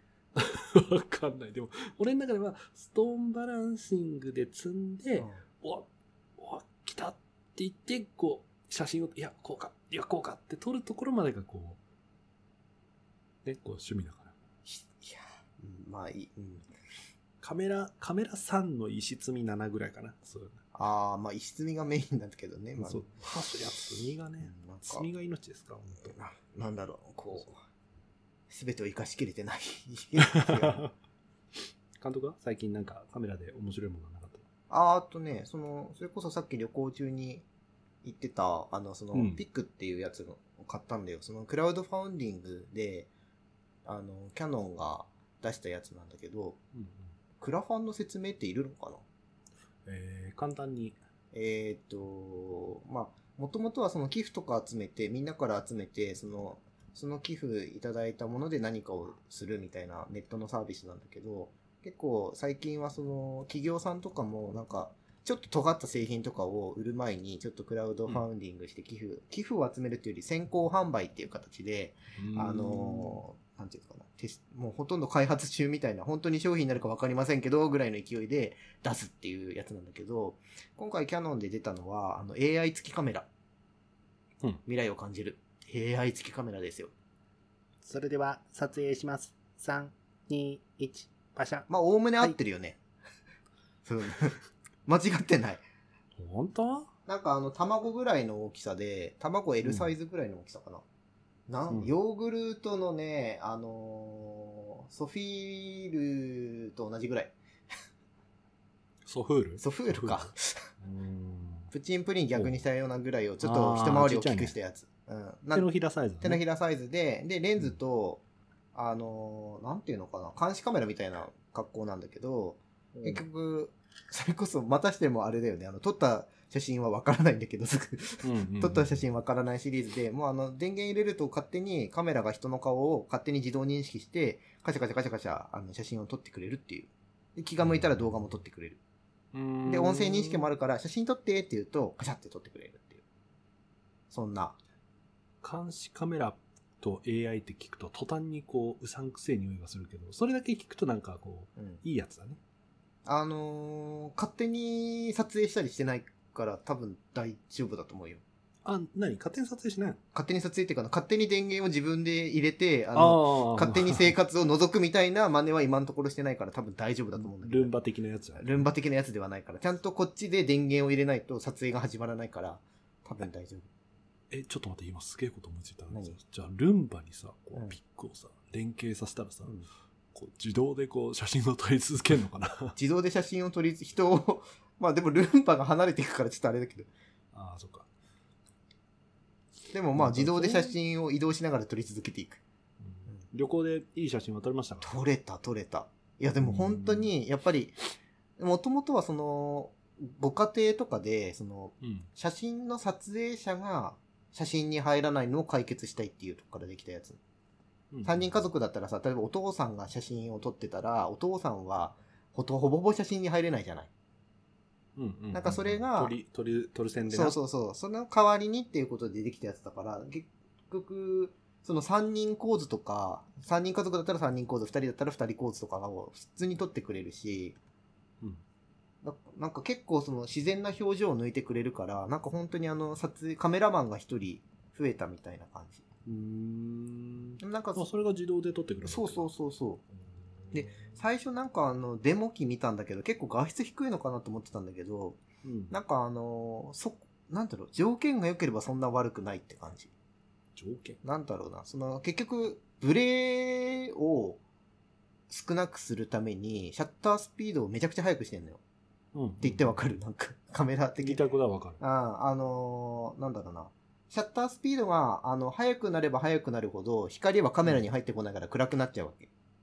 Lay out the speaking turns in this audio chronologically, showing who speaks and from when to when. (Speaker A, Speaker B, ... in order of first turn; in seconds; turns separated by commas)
Speaker A: 0.4-11.8, Speaker A: 13.4-14.4, Speaker B: 14.7-16.7, Speaker A: 17.4-20.6, Speaker B: 20.7-23.1, Speaker A: 22.8-26.2, Speaker B: 24.4-25.1, Speaker B: 26.0-27.6, Speaker B: 28.5-30.9, Speaker A: 30.2-30.9, Speaker A: 32.0-34.5, Speaker B: 34.7-37.5, Speaker B: 38.0-43.1, Speaker A: 39.1-39.4, Speaker B: 43.9-46.6, Speaker A: 46.7-47.1, Speaker B: 47.4-49.0, Speaker A: 49.9-51.0, Speaker B: 51.3-83.3, Speaker A: 72.2-73.2, Speaker B: 84.7-86.9, Speaker C: 87.8-91.7, Speaker B: 91.7-92.8, Speaker B: 93.8-95.6, Speaker A: 96.2-96.9, Speaker B: 97.1-100.8, Speaker A: 99.6-99.9, Speaker B: 101.5-107.4, Speaker A: 109.1-111.7, Speaker B: 109.6-110.7, Speaker B: 111.7-115.7, Speaker A: 112.3-112.6, Speaker A: 113.4-114.6, Speaker A: 115.5-116.4, Speaker B: 116.2-118.2, Speaker B: 118.7-138.8, Speaker A: 122.9-123.2, Speaker A: 128.2-129.0, Speaker A: 139.3-140.5, Speaker B: 139.7-143.0, Speaker B: 144.1-144.6, Speaker A: 145.4-152.4, Speaker B: 153.1-158.2, Speaker A: 158.7-160.0, Speaker B: 160.1-167.7, Speaker A: 162.9-164.2, Speaker A: 167.2-168.6, Speaker B: 168.4-173.7, Speaker A: 174.3-182.8, Speaker B: 175.9-176.2, Speaker B: 182.8-186.9, Speaker A: 187.3-187.9, Speaker B: 189.7-192.4, Speaker A: 189.9-190.8, Speaker A: 192.8-195.0, Speaker B: 194.8-197.8, Speaker A: 196.4-197.1, Speaker B: 198.4-207.2, Speaker A: 201.8-202.1, Speaker A: 207.9-208.4, Speaker B: 208.1-213.9, Speaker A: 215.0-217.4, Speaker B: 215.3-216.2, Speaker B: 217.1-227.6, Speaker B: 229.0-235.8, Speaker A: 236.1-239.3, Speaker B: 237.4-237.9, Speaker B: 238.8-239.8, Speaker A: 240.4-241.0, Speaker B: 240.5-249.9, Speaker A: 245.4-245.8, Speaker A: 250.6-251.0, Speaker B: 251.0-254.4, Speaker B: 255.3-258.6, Speaker A: 259.1-259.8, Speaker B: 259.4-269.3, Speaker A: 261.0-261.8